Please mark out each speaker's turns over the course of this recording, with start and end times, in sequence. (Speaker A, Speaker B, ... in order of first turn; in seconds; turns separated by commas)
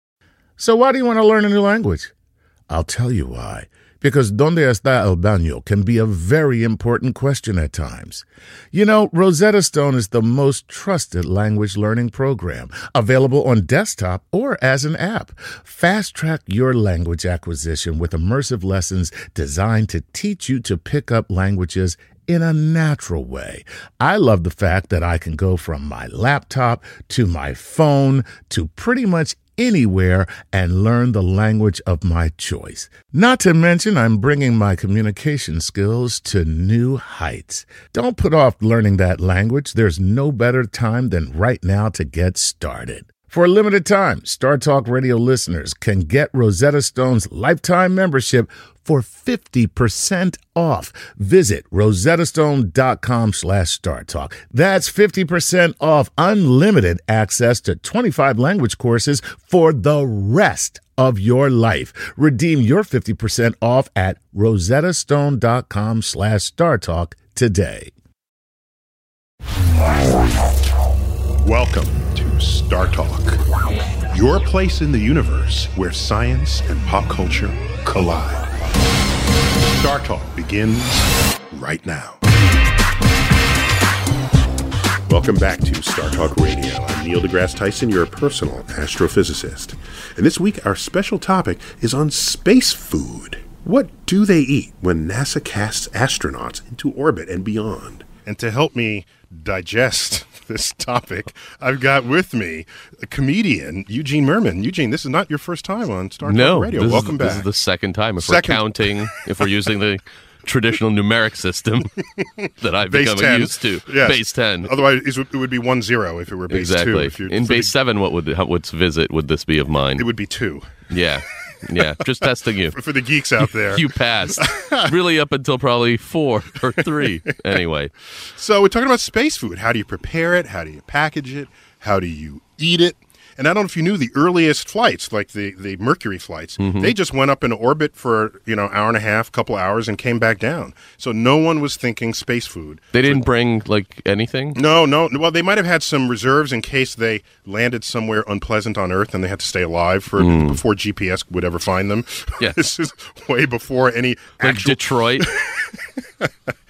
Speaker A: 0.6-2.1, Speaker A: 2.7-67.9, Speaker B: 71.4-73.4, Speaker B: 74.1-78.5, Speaker B: 79.7-82.2, Speaker B: 85.1-107.5, Speaker C: 106.2-111.9, Speaker B: 108.2-109.5, Speaker C: 112.6-114.7, Speaker B: 112.9-117.7, Speaker C: 116.5-120.1, Speaker B: 120.0-120.7, Speaker C: 120.9-122.8, Speaker B: 122.7-124.9, Speaker C: 123.7-127.9, Speaker B: 128.3-143.2, Speaker C: 136.6-136.9, Speaker C: 142.9-144.6, Speaker B: 144.5-156.3, Speaker C: 150.2-150.6, Speaker C: 154.4-155.3